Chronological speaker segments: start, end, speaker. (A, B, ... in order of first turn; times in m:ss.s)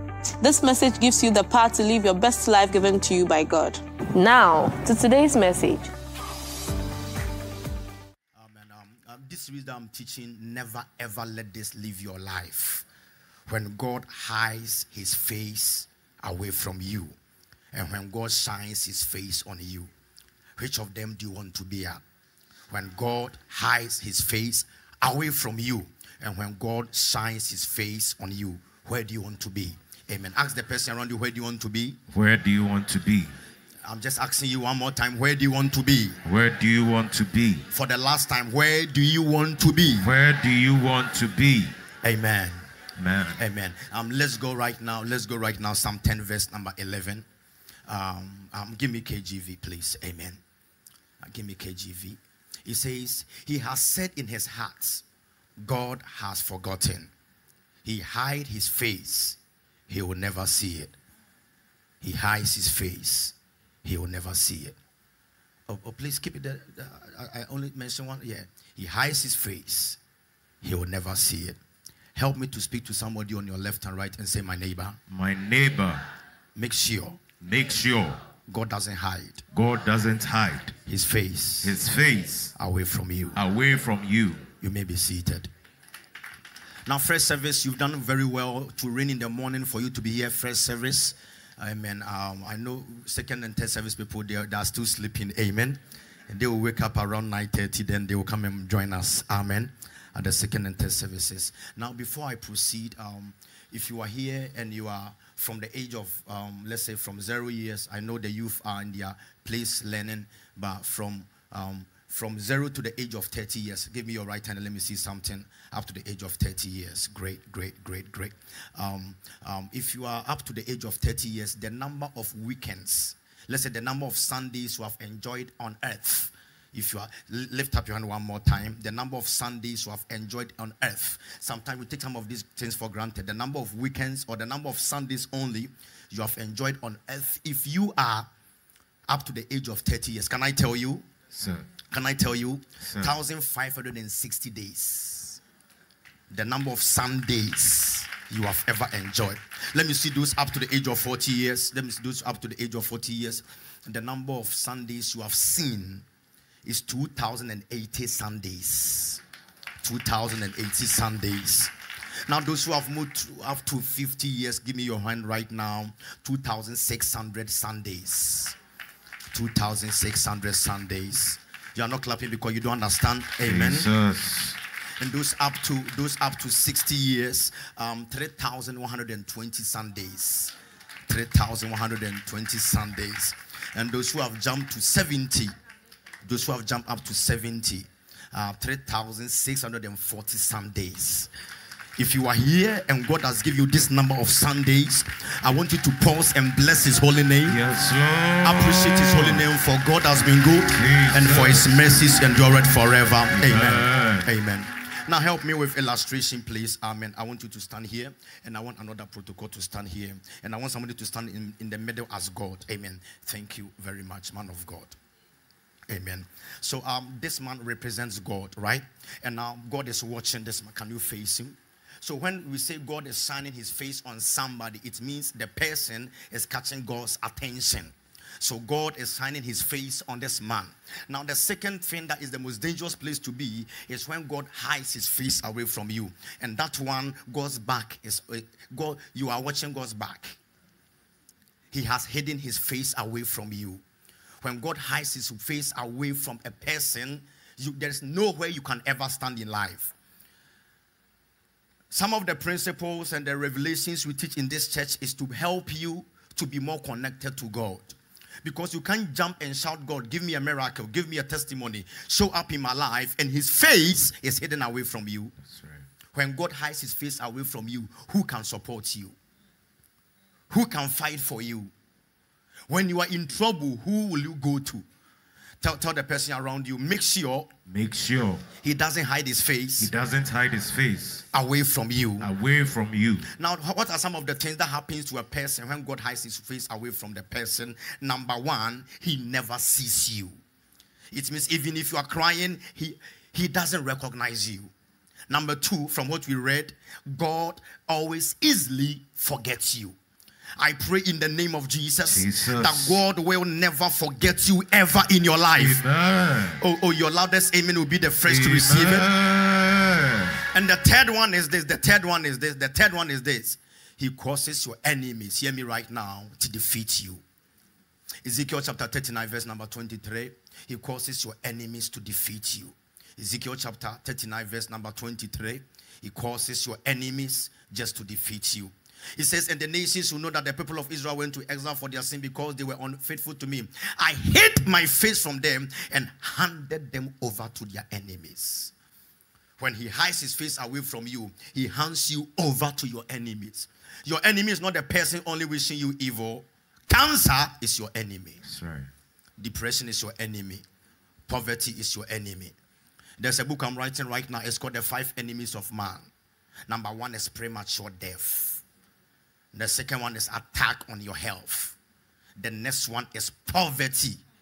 0:00.4-0:05.9 A
0:08.3-0:12.8 B
0:13.5-0:17.2 B
0:17.7-0:19.9 B
0:20.6-0:22.0 B
0:22.7-0:32.0 B
0:32.1-0:33.3 C
0:33.8-0:36.2 B
0:36.2-0:37.7 C
0:37.7-0:40.1 B
0:40.0-0:41.7 C
0:42.0-0:42.6 B
0:43.0-0:43.4 C
0:43.4-0:47.2 B
0:47.9-0:50.4 B
0:51.2-0:55.0 B
0:55.6-0:57.1 B
0:57.8-0:59.4 B
0:59.9-1:00.9 B
1:02.0-1:04.8 B
1:05.7-1:10.0 B
1:10.6-1:11.6 B
1:12.2-1:15.0 B
1:15.1-1:16.0 C
1:16.6-1:17.2 B
1:17.4-1:18.2 C
1:18.5-1:19.4 B
1:19.5-1:20.7 C
1:20.8-1:21.8 B
1:21.6-1:22.5 C
1:22.5-1:23.4 B
1:23.3-1:24.4 C
1:24.6-1:25.5 B
1:26.8-2:18.3 B
2:19.1-2:21.1 B
2:21.3-2:21.6 C
2:21.9-2:25.4 B
2:22.8-2:23.1 C
2:26.3-2:36.0 B
2:36.6-2:39.2 B
2:39.8-2:41.7 B
2:42.3-2:48.6 B
2:49.3-2:53.9 B
2:53.4-2:54.6 C
2:55.0-3:00.5 B
3:01.1-3:05.5 B
3:06.2-3:11.3 B
3:12.0-3:17.6 B
3:17.5-3:19.4 C
3:18.4-3:35.0 B
3:20.8-3:21.9 C
3:23.3-3:24.3 C
3:35.9-4:00.4 B
4:01.7-4:03.8 B
4:04.4-4:09.9 B
4:11.9-4:25.3 B
4:25.4-4:25.8 C
4:26.1-4:29.2 B
4:30.5-4:31.7 B
4:32.7-4:34.8 B
4:35.6-4:37.5 B
4:37.7-4:38.4 C
4:38.6-4:39.9 B
4:39.8-4:41.2 C
4:41.3-4:42.3 B
4:42.2-4:43.3 C
4:43.3-4:50.3 B
4:51.1-4:54.7 B
4:55.3-5:00.0 B
5:00.6-5:05.8 B
5:02.1-5:03.0 C
5:05.6-5:06.6 C
5:06.6-5:09.1 B
5:08.2-5:10.4 C
5:10.5-5:17.2 B
5:18.2-5:38.7 B
5:39.6-5:48.4 B
5:48.4-5:48.9 C
5:49.4-5:50.6 B
5:51.3-5:52.5 B
5:53.2-5:56.1 B
5:56.7-5:58.6 B
5:59.5-6:01.8 B
6:02.4-6:04.2 B